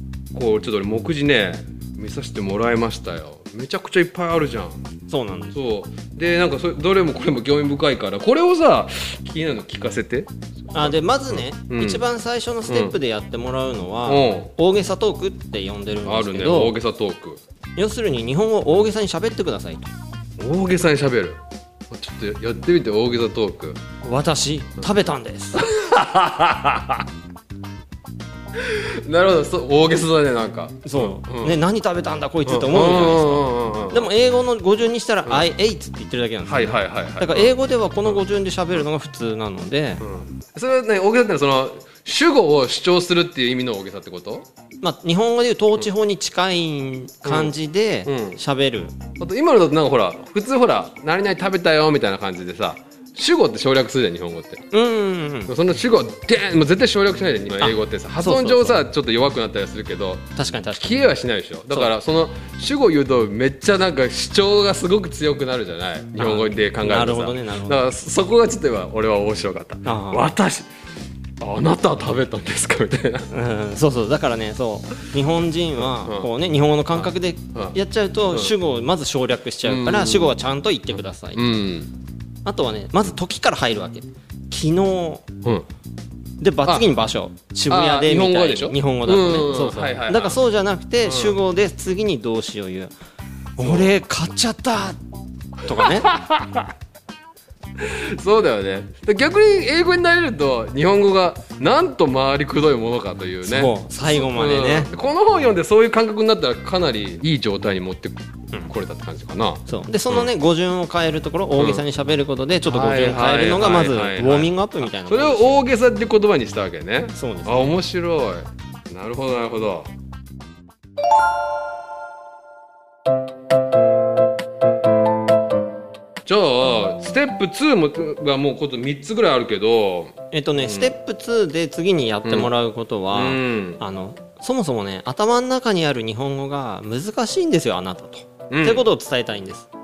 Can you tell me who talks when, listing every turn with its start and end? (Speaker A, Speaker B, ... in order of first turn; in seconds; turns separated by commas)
Speaker A: 0.3-4.8, Speaker B: 5.1-5.5, Speaker A: 5.5-12.1, Speaker B: 10.7-16.7, Speaker A: 12.7-12.9, Speaker A: 14.1-14.5, Speaker A: 16.0-17.4, Speaker B: 17.8-19.9, Speaker A: 20.4-23.8, Speaker B: 24.0-25.7, Speaker A: 25.6-27.1, Speaker A: 28.5-31.6, Speaker B: 30.8-40.0, Speaker A: 32.5-34.1, Speaker A: 36.4-37.5, Speaker A: 40.0-44.5, Speaker B: 44.8-48.9, Speaker A: 47.2-47.5, Speaker A: 48.0-48.4, Speaker A: 49.2-54.6, Speaker B: 54.7-55.5, Speaker A: 55.5-70.7, Speaker B: 57.6-58.8, Speaker B: 60.4-61.0, Speaker B: 66.2-67.8, Speaker B: 69.8-70.3, Speaker A: 71.4-73.3, Speaker B: 73.3-81.5, Speaker A: 75.9-76.3, Speaker A: 77.0-77.7, Speaker A: 78.3-78.5, Speaker A: 79.6-80.4, Speaker A: 81.3-81.9, Speaker B: 82.4-85.2, Speaker B: 86.4-92.9, Speaker A: 87.7-90.4, Speaker A: 91.0-91.4, Speaker B: 93.6-95.0, Speaker A: 93.6-94.0, Speaker B: 95.6-96.1, Speaker A: 95.7-96.7, Speaker A: 97.8-110.3, Speaker B: 103.4-104.9, Speaker B: 109.7-115.5, Speaker A: 111.6-111.8, Speaker A: 112.6-119.9, Speaker B: 117.1-117.8, Speaker A: 126.2-130.9, Speaker B: 130.3-139.7, Speaker A: 132.2-132.5, Speaker A: 133.1-133.8, Speaker A: 138.5-138.8